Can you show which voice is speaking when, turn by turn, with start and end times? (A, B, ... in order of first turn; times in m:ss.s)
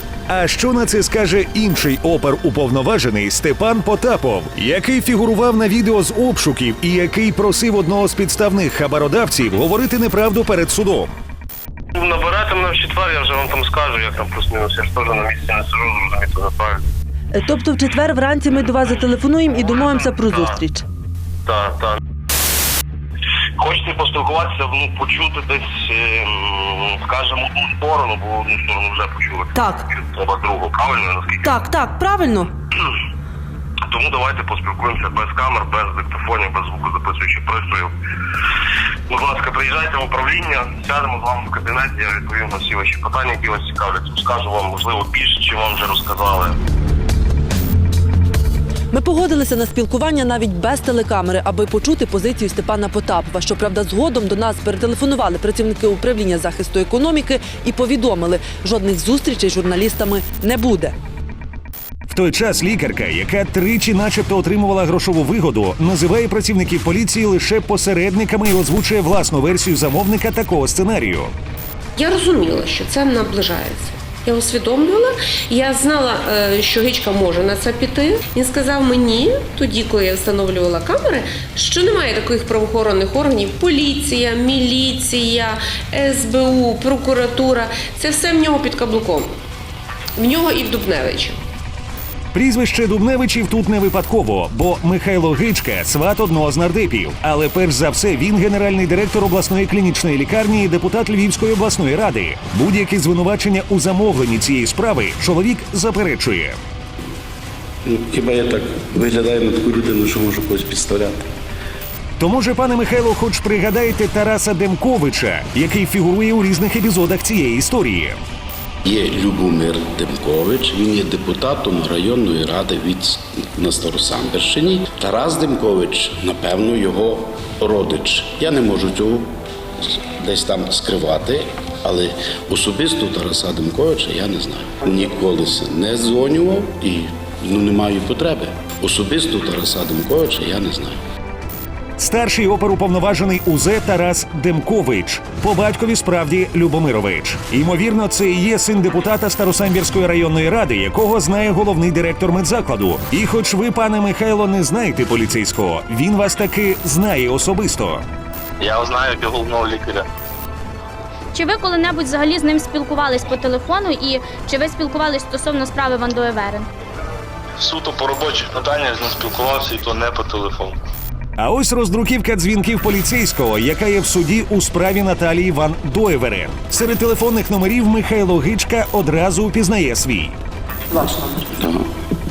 0:00.3-0:11.1 A
0:12.0-0:16.8 B
0:17.3-0:20.8 C
0:21.5-0:22.0 B
0:23.6-0:31.4 B
0:29.5-0:29.8 C
0:31.4-0:32.5 C
0:33.9-0:37.9 B
0:39.1-0:46.5 B
0:48.9-1:00.9 C
1:02.1-1:11.3 A
1:12.0-1:29.3 D
1:30.2-1:31.4 D
1:32.3-1:46.6 A
1:47.8-1:51.2 E
1:52.2-1:58.2 A
1:58.8-2:09.3 E
2:09.8-2:21.0 E
2:22.0-2:38.0 A
2:38.6-2:40.0 B
2:41.3-2:46.7 F
2:47.6-2:50.8 B
2:51.4-3:00.4 A
3:00.9-3:01.4 C
3:01.6-3:01.8 E